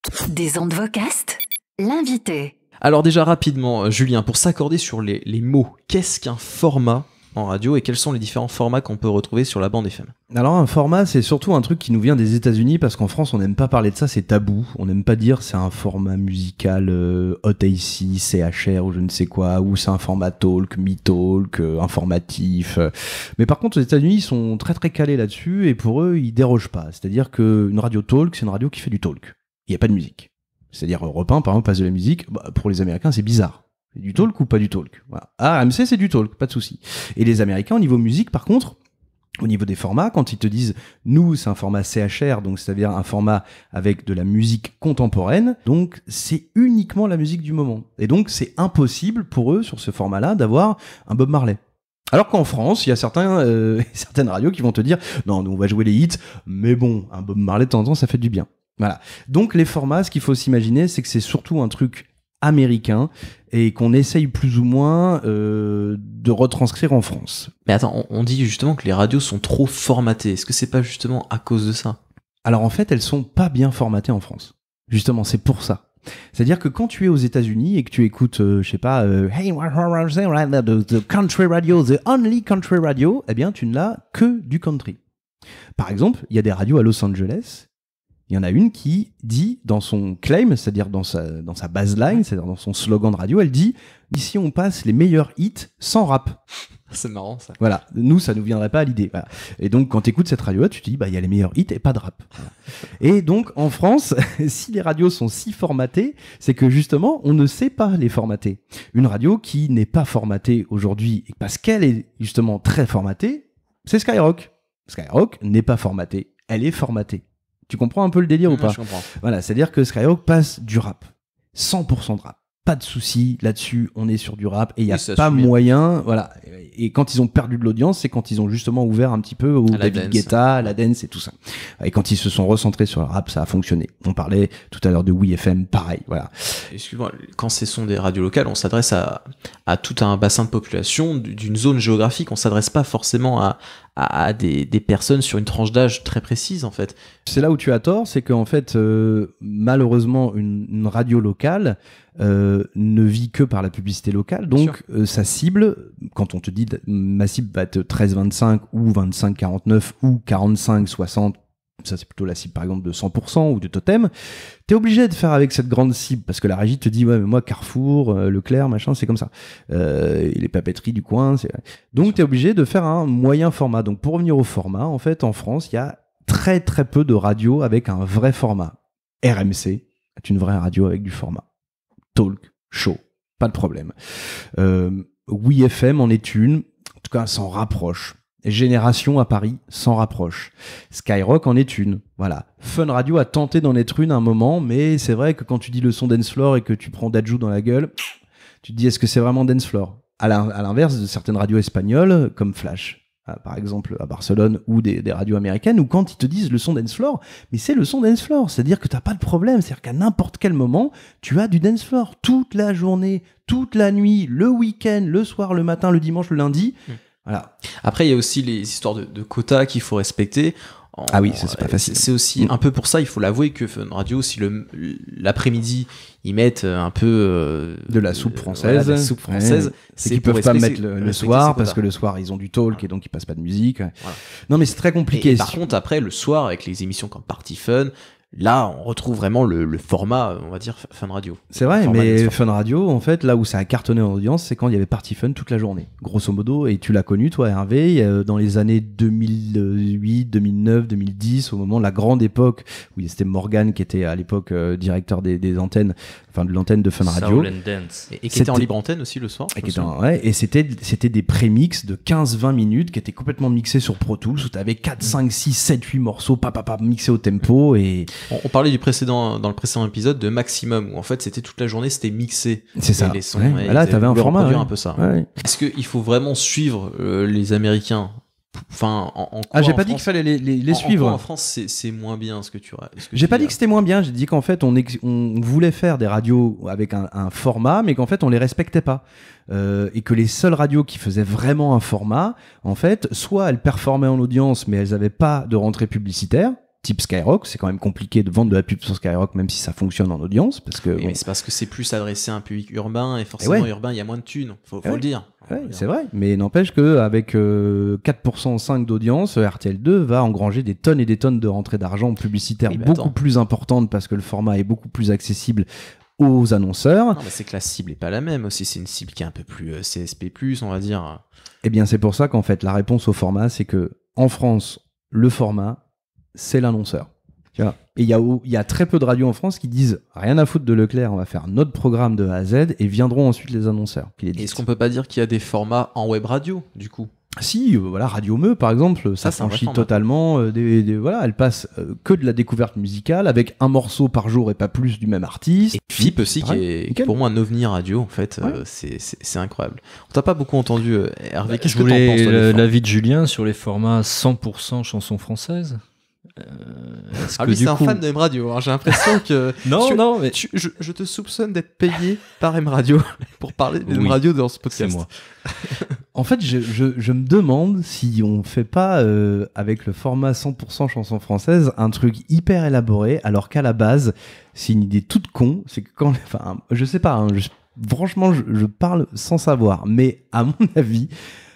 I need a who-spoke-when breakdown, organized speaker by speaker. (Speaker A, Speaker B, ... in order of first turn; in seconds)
Speaker A: 0.2-2.5
Speaker B: 2.8-10.1, 67.7-72.0, 96.9-97.6, 118.5-119.1, 124.9-125.5, 129.7-130.7, 136.7-147.0, 217.8-231.8, 235.1-242.5, 258.1-259.9, 268.3-280.1, 280.7-283.6, 300.9-305.9, 312.7-313.1, 317.1-321.2, 334.4-337.1, 339.2-339.9, 345.7-352.6, 357.4-365.9
Speaker C: 10.3-38.8, 39.4-51.6, 52.1-67.5, 72.5-85.0, 85.8-87.7, 88.3-96.4, 97.6-136.3, 147.3-164.1, 164.7-181.4, 182.2-183.9, 184.6-197.9, 198.6-217.5, 221.1-222.5, 227.9-233.9, 234.5-235.6, 241.5-257.5, 258.3-258.7, 259.5-268.1, 272.8-275.3, 279.5-281.2, 283.1-301.2, 303.4-303.7, 304.8-315.7, 316.2-317.2, 321.6-325.8, 326.4-334.6, 337.4-347.1, 366.1-381.1
Speaker D: 257.0-258.1, 351.5-355.8, 356.4-358.0, 359.6-360.4, 363.9-364.2, 364.7-365.1